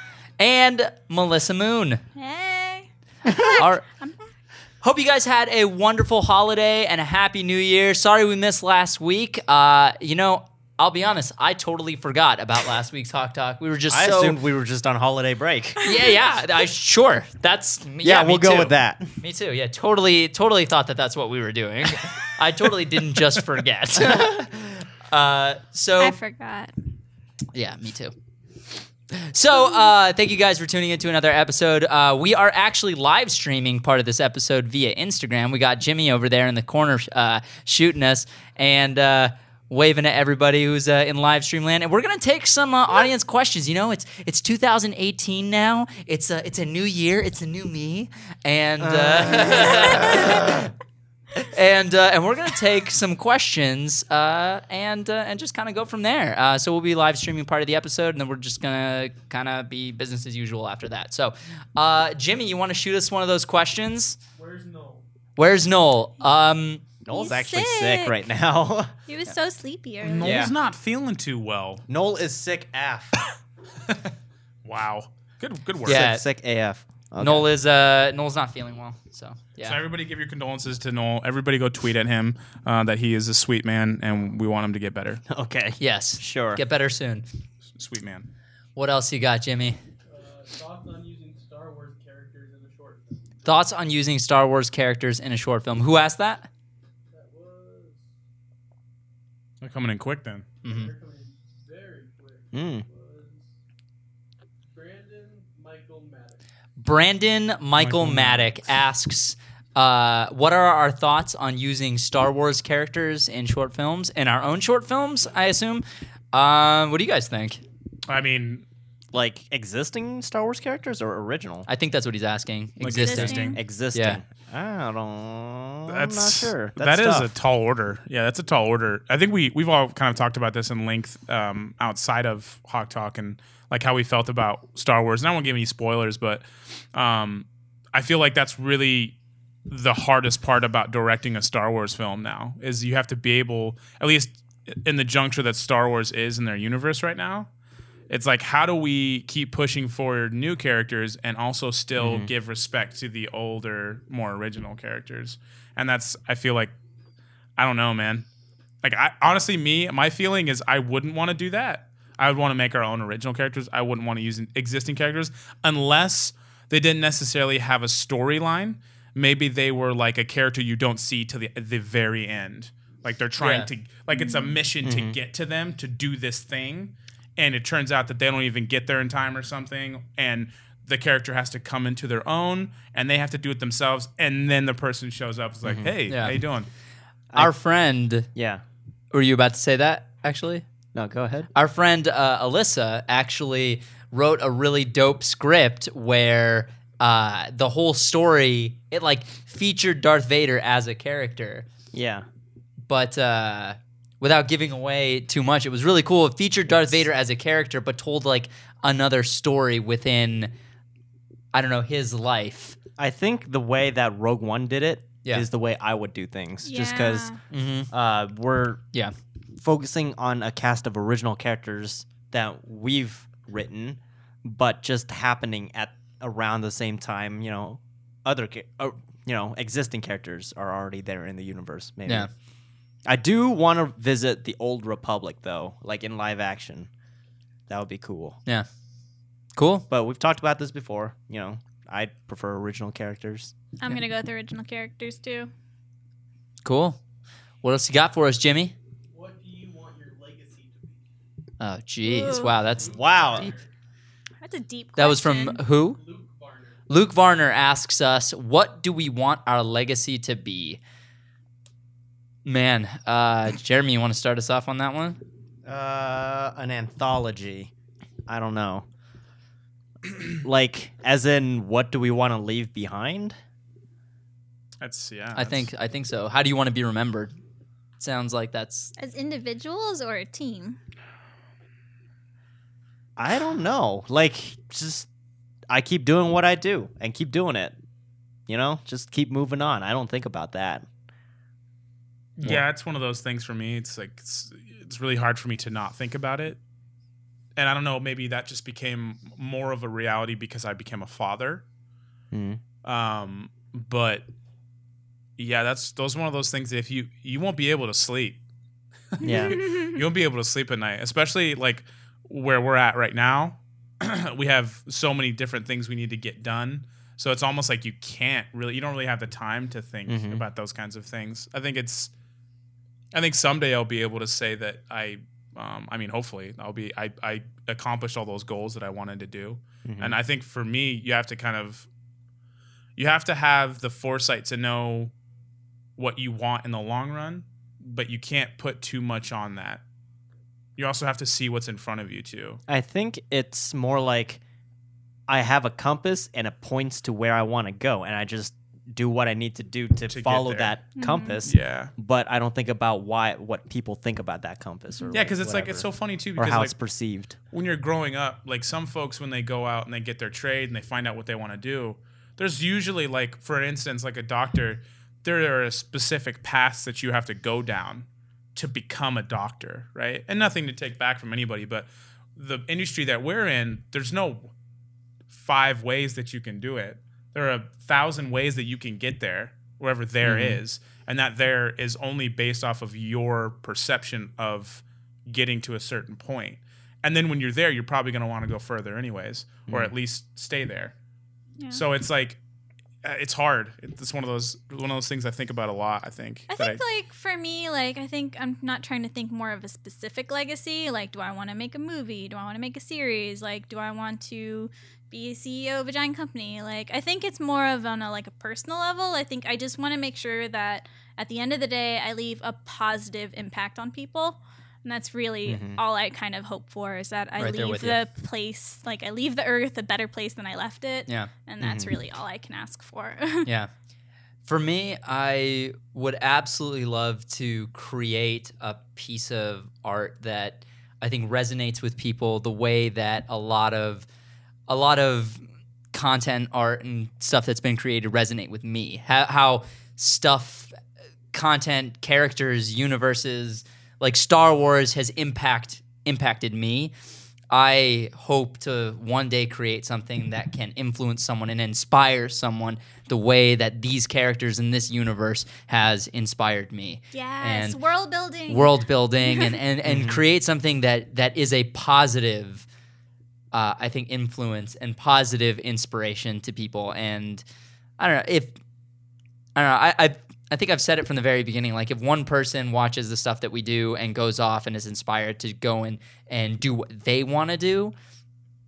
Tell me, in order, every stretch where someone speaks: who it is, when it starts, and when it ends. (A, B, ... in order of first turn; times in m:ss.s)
0:00.4-0:02.0 A
0:02.2-0:04.2 B
0:03.3-0:03.6 C
0:03.6-0:03.8 A
0:04.8-0:14.4 A
0:13.9-0:15.8 C
0:15.8-0:26.2 A
0:18.0-0:19.2 C
0:24.1-0:24.4 C
0:26.0-0:26.7 B
0:27.5-0:28.1 A
0:29.1-0:50.7 A
0:48.8-0:50.7 C
0:51.4-1:04.2 A
1:04.4-1:05.1 D
1:05.4-1:06.8 A
1:07.1-1:08.9 C
1:07.1-1:08.2 B
1:09.1-1:10.4 B
1:10.0-1:11.8 E
1:10.2-1:10.5 C
1:11.9-1:13.2 C
1:14.6-1:16.1 E
1:15.8-1:17.5 C
1:15.9-1:16.2 A
1:17.2-1:19.8 A
1:19.6-1:25.2 E
1:25.3-1:26.6 C
1:25.8-1:27.3 A
1:27.8-1:28.3 E
1:28.8-1:29.8 A
1:30.1-1:33.3 D
1:33.4-1:36.5 A
1:37.1-1:38.1 D
1:39.6-1:40.5 E
1:40.6-1:40.9 A
1:40.6-1:43.5 D
1:42.5-1:42.8 C
1:44.7-1:46.4 D
1:46.8-1:57.6 A
1:47.8-1:48.5 E
1:58.1-1:58.6 E
1:59.1-2:01.7 C
2:01.7-2:04.2 A
2:02.8-2:03.6 E
2:03.0-2:03.6 B
2:03.5-2:07.3 C
2:05.9-2:27.5 E
2:28.1-2:36.7 E
2:32.0-2:32.3 C
2:37.6-2:38.3 E
2:38.8-3:06.7 E
2:53.4-2:53.7 A
2:54.1-2:54.6 B
2:54.8-2:55.2 C
3:05.6-3:05.9 C
3:06.1-3:06.4 A
3:07.4-3:08.3 A
3:08.4-3:08.6 C
3:09.1-3:10.6 A
3:10.9-3:11.5 C
3:11.5-3:21.7 A
3:21.9-3:22.3 C
3:22.9-3:30.5 A
3:31.5-3:32.8 A
3:33.0-3:37.3 C
3:36.6-3:37.4 B
3:37.5-3:37.9 A
3:37.9-3:38.8 C
3:39.6-3:52.3 C
3:53.1-3:56.9 C
3:57.7-3:58.4 C
3:59.6-3:59.9 A
3:59.9-4:03.5 C
4:03.8-4:05.5 B
4:06.6-4:07.0 A
4:07.6-4:08.7 A
4:09.1-4:11.1 D
4:11.6-4:13.5 A
4:12.1-4:12.5 B
4:12.5-4:13.7 D
4:12.8-4:13.5 C
4:14.4-4:15.6 B
4:15.0-4:16.0 A
4:15.9-4:16.8 D
4:16.9-4:20.8 A
4:22.4-4:25.2 A
4:25.7-4:27.7 C
4:28.3-4:28.9 C
4:30.4-4:33.4 C
4:34.8-4:35.7 E
4:35.3-4:37.4 A
4:38.0-4:38.9 A
4:39.0-4:40.8 B
4:43.2-4:45.1 C
4:45.7-4:47.8 C
4:48.5-4:50.9 C
4:52.4-4:56.6 E
4:57.6-5:01.6 E
5:02.3-5:02.6 C
5:02.8-5:04.3 E
5:05.4-5:08.4 E
5:09.2-5:22.1 E
5:09.2-5:10.0 B
5:09.2-5:09.6 C
5:20.1-5:20.5 C
5:23.1-5:31.9 E
5:29.8-5:30.2 C
5:33.0-5:35.1 E
5:36.0-5:39.8 E
5:40.8-5:42.6 E
5:42.7-5:44.4 C
5:45.3-5:55.9 C
5:50.1-5:50.8 E
5:51.0-5:51.4 B
5:51.4-5:51.9 E
5:55.1-5:56.8 E
5:56.4-5:57.4 C
5:57.5-6:14.5 E
6:15.3-6:30.9 E
6:20.2-6:20.6 C
6:29.7-6:29.9 C
6:31.7-6:32.4 E
6:33.0-6:36.8 E
6:36.5-7:03.5 B
6:55.5-6:55.8 C
6:57.4-6:58.0 A
7:01.6-7:02.0 C
7:04.4-7:14.1 A
7:14.7-7:20.7 A
7:21.3-7:26.9 A
7:27.5-7:37.8 A
7:37.1-7:39.6 B
7:38.5-7:42.7 A
7:39.9-7:40.2 C
7:43.5-7:47.4 A
7:48.0-7:48.6 A
7:49.6-7:57.9 A